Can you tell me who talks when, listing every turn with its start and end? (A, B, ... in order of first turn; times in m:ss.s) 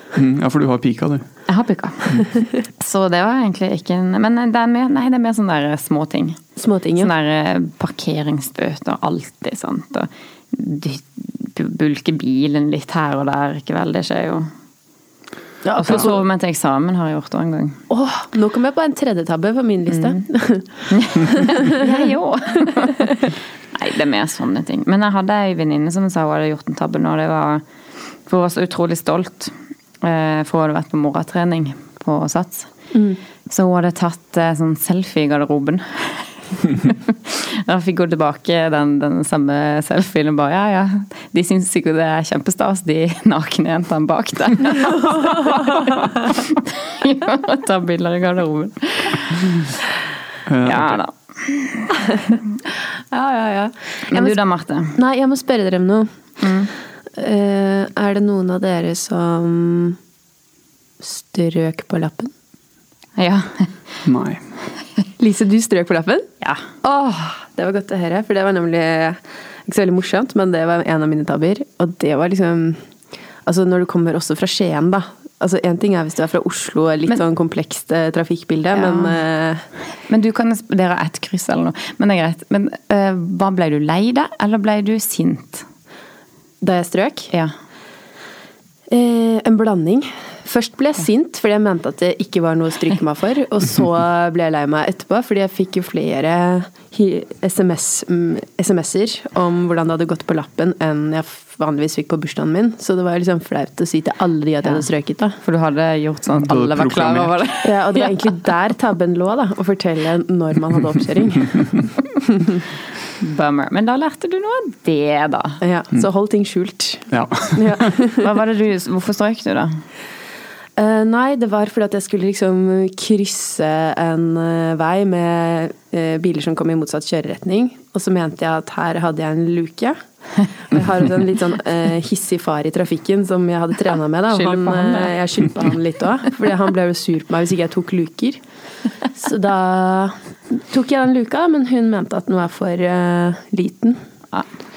0:00.1-0:01.2 A
0:01.5-0:06.4 B
0:06.6-0:07.1 C
0:07.0-0:14.5 B
0:15.6-0:16.2 C
0:15.8-0:17.8 B
0:17.9-0:20.7 C
0:19.9-0:20.2 B
0:20.9-0:27.6 B
0:21.3-0:22.1 C
0:28.2-0:32.7 B
0:32.9-0:33.2 C
0:33.5-0:49.8 B
0:44.8-0:45.5 C
0:50.5-0:51.0 A
0:50.6-0:52.3 B
0:52.1-0:52.4 C
0:53.1-0:54.4 C
0:54.1-0:55.0 B
0:54.9-0:56.1 C
0:56.4-0:56.7 B
0:57.2-1:00.0 C
1:01.0-1:02.3 C
1:03.2-1:03.7 B
1:04.0-1:04.4 A
1:05.2-1:06.3 C
1:06.8-1:12.8 C
1:13.4-1:19.6 C
1:18.7-1:19.2 B
1:20.1-1:25.6 B
1:26.6-1:27.3 C
1:28.9-1:45.4 C
1:45.4-1:48.3 B
1:46.4-1:47.3 A
1:47.6-1:52.6 C
1:53.2-1:55.6 B
1:55.6-1:58.3 C
1:57.1-1:58.0 A
1:58.1-1:59.8 B
2:00.8-2:10.0 C
2:10.7-2:18.4 C
2:14.3-2:15.2 B
2:19.2-2:24.0 C